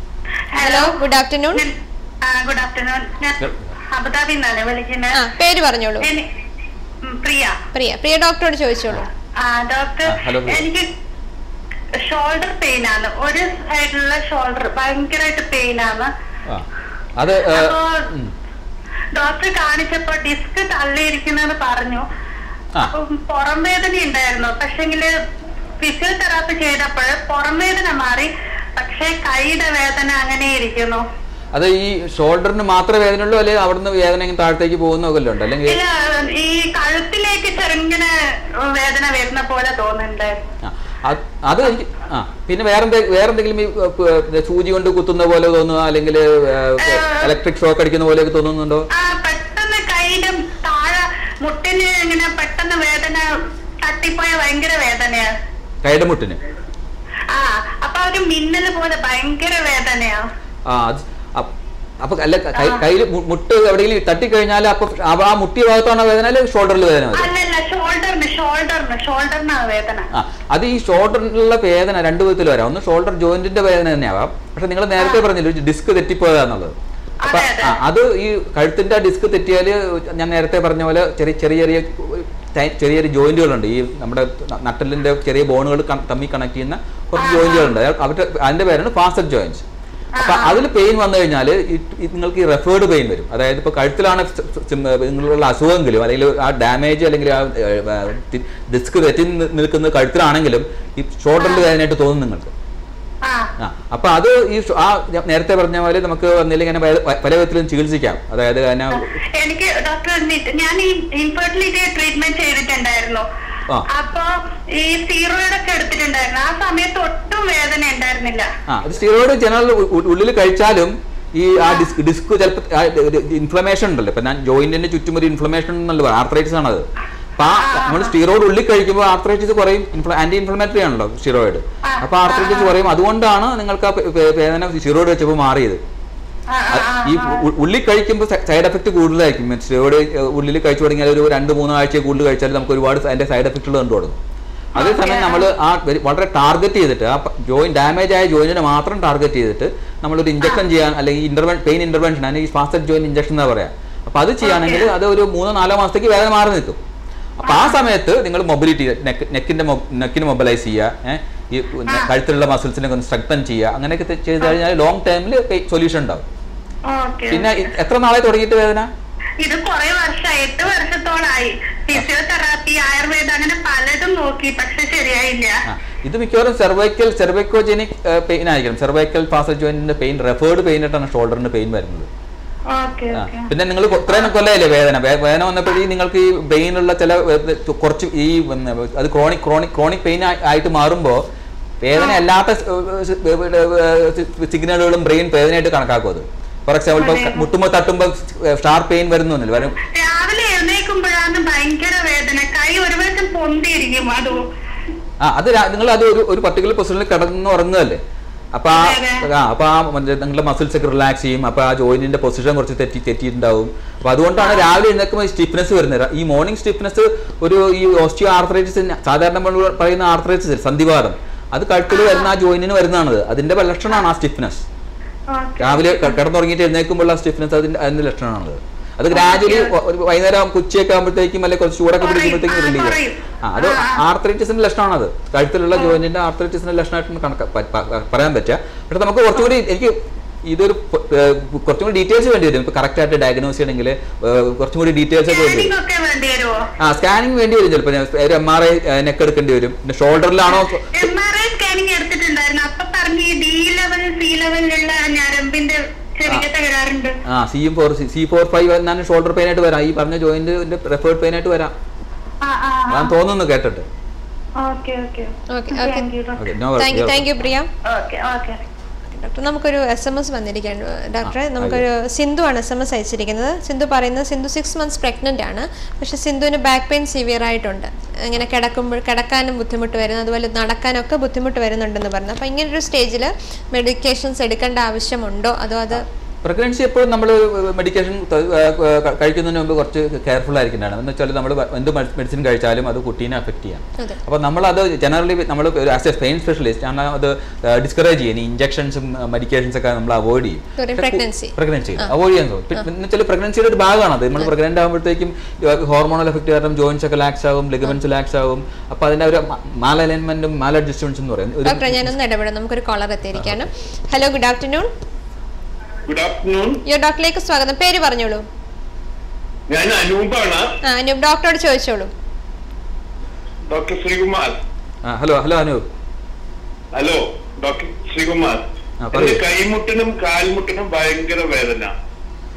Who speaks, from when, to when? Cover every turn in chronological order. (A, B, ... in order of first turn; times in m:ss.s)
0:00.5-0:05.2 A
0:00.6-0:01.6 B
0:03.4-0:03.7 C
0:05.1-0:06.1 B
0:07.0-0:07.6 A
0:07.7-0:09.1 B
0:09.4-0:10.9 A
0:10.1-0:10.7 C
0:12.0-0:16.1 A
0:17.2-0:18.3 C
0:17.5-0:18.0 A
0:19.1-0:22.0 A
0:22.8-0:25.1 A
0:25.8-0:31.0 A
0:31.5-0:35.8 C
0:35.6-0:40.4 A
0:40.6-0:48.9 C
0:46.8-0:47.3 A
0:48.9-0:53.2 A
0:53.8-0:55.3 A
0:55.8-0:56.4 C
0:57.3-1:00.2 A
1:00.6-1:07.3 C
1:02.6-1:02.8 A
1:07.1-1:10.1 A
1:10.1-1:16.8 C
1:15.0-1:15.2 A
1:17.2-1:17.8 A
1:17.2-1:29.6 C
1:27.2-1:27.7 A
1:30.1-1:30.6 A
1:30.2-1:42.5 C
1:41.4-1:41.6 A
1:43.2-1:43.5 A
1:43.6-1:49.1 C
1:48.9-1:53.2 A
1:53.9-1:58.5 A
1:58.7-2:06.9 C
2:01.6-2:01.9 A
2:07.4-2:15.8 C
2:07.5-2:08.1 A
2:11.8-2:12.7 A
2:16.5-2:17.4 A
2:16.7-2:24.2 C
2:24.8-2:25.5 A
2:24.8-2:36.8 C
2:34.4-2:34.9 A
2:37.4-2:46.2 C
2:37.4-2:37.8 A
2:46.9-2:47.6 A
2:47.3-2:48.9 C
2:49.4-2:55.5 A
2:55.6-3:02.1 C
3:02.7-3:03.5 A
3:03.1-3:11.2 C
3:11.8-3:19.8 C
3:12.0-3:12.2 A
3:17.0-3:17.5 A
3:19.7-3:24.4 A
3:25.2-3:28.0 C
3:28.5-3:44.6 C
3:28.7-3:29.2 A
3:34.4-3:34.7 A
3:41.9-3:42.3 A
3:45.3-3:46.1 A
3:45.6-4:05.7 C
3:49.1-3:49.7 A
3:52.0-3:54.0 A
4:05.3-4:06.6 A
4:06.8-4:11.1 C
4:10.5-4:17.2 A
4:17.2-4:21.7 C
4:22.4-4:23.1 A
4:22.9-4:23.9 C
4:24.6-4:26.4 A
4:25.5-4:26.1 B
4:26.4-4:27.3 C
4:26.8-4:27.7 B
4:27.9-4:28.6 A
4:29.1-4:46.0 B
4:31.2-4:31.8 C
4:45.9-5:12.1 C
5:00.8-5:02.1 B
5:11.6-5:14.9 B
5:16.1-5:16.8 D
5:16.9-5:18.4 B
5:19.7-5:20.7 D
5:20.8-5:22.1 B
5:23.7-5:24.6 D
5:25.0-5:25.8 C
5:27.0-5:31.9 D
5:29.0-5:29.4 C